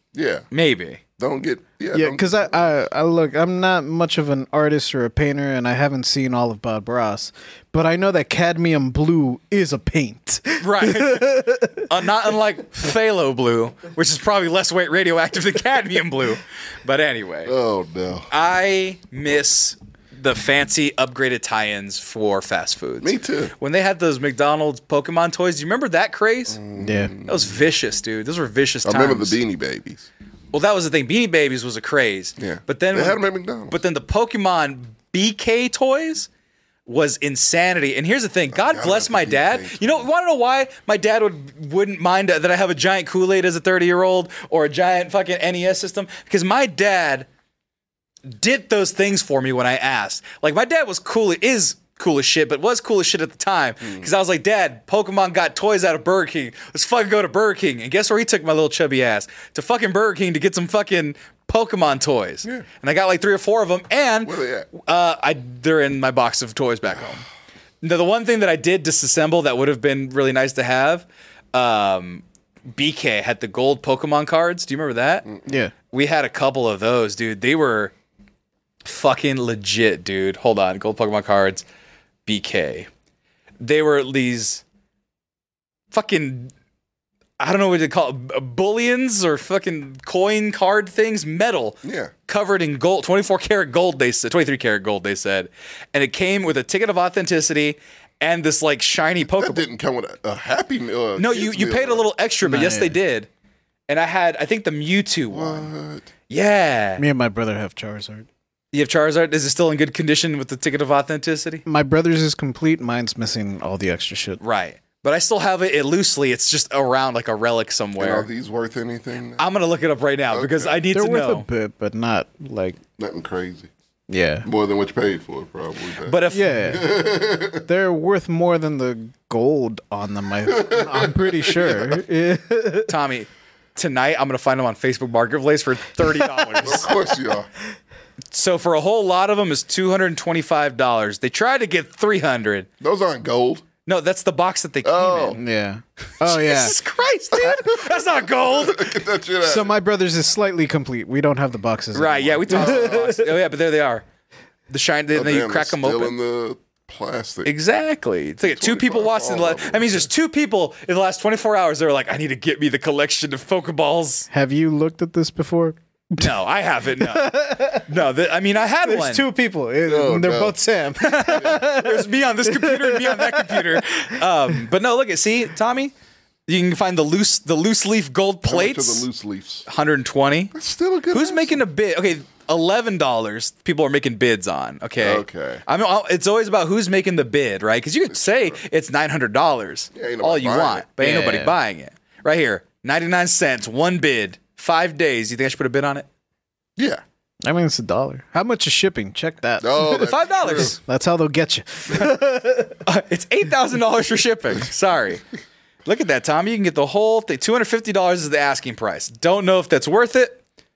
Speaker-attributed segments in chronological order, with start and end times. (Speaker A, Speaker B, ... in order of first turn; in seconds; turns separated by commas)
Speaker A: 0.1-0.5, Speaker B: 0.5-1.0, Speaker A: 1.2-2.7, Speaker C: 1.9-11.9, Speaker B: 10.6-17.5, Speaker A: 17.4-18.3, Speaker B: 18.3-26.6, Speaker A: 23.0-23.5, Speaker A: 26.5-27.6, Speaker C: 26.8-27.1, Speaker B: 27.2-29.4, Speaker A: 28.8-30.1, Speaker B: 30.5-36.3, Speaker A: 32.4-33.8, Speaker B: 36.9-47.3, Speaker A: 38.5-40.1, Speaker B: 48.3-67.2, Speaker A: 53.8-54.1, Speaker A: 64.2-64.7, Speaker B: 67.8-75.2, Speaker C: 75.5-75.7, Speaker B: 75.9-77.9, Speaker B: 78.8-81.6, Speaker B: 82.2-82.9, Speaker B: 83.6-84.6, Speaker B: 85.9-86.5, Speaker B: 87.4-99.7, Speaker A: 91.8-92.1, Speaker A: 99.3-102.0, Speaker B: 101.2-103.3, Speaker C: 102.4-103.0, Speaker B: 103.9-105.7, Speaker A: 105.3-106.0, Speaker B: 106.3-107.0, Speaker C: 107.0-108.3, Speaker B: 108.7-111.6, Speaker C: 111.7-114.4, Speaker B: 114.4-118.3, Speaker A: 118.0-119.5, Speaker B: 119.4-121.5, Speaker A: 120.3-120.8, Speaker C: 120.9-122.8, Speaker A: 123.0-123.7, Speaker C: 124.1-124.5, Speaker A: 124.4-127.6, Speaker B: 126.0-126.6, Speaker C: 126.3-127.0, Speaker C: 127.6-132.9, Speaker A: 130.5-132.0, Speaker B: 132.9-136.9, Speaker A: 136.6-137.5, Speaker B: 138.3-142.7, Speaker A: 142.8-143.6, Speaker B: 143.8-145.4, Speaker A: 144.8-145.4, Speaker C: 145.3-146.8, Speaker B: 146.2-148.9, Speaker A: 147.3-149.8, Speaker C: 149.4-153.2, Speaker B: 151.9-154.0, Speaker A: 152.5-153.1, Speaker B: 154.7-156.2, Speaker A: 155.1-157.5, Speaker B: 157.4-164.3, Speaker A: 158.4-160.1, Speaker C: 164.3-166.3, Speaker B: 166.2-169.2, Speaker C: 167.0-167.9, Speaker C: 168.8-174.0, Speaker A: 169.8-170.6, Speaker B: 171.0-175.9, Speaker B: 176.5-179.1, Speaker A: 178.4-179.7, Speaker B: 179.7-180.5, Speaker A: 180.5-181.6, Speaker B: 181.1-196.1, Speaker A: 185.0-185.6, Speaker A: 188.1-188.6, Speaker A: 189.9-190.8, Speaker C: 191.0-191.6, Speaker A: 196.8-197.0, Speaker C: 197.4-202.8, Speaker A: 199.6-200.8, Speaker B: 200.0-200.8, Speaker B: 202.8-205.2, Speaker B: 205.8-210.4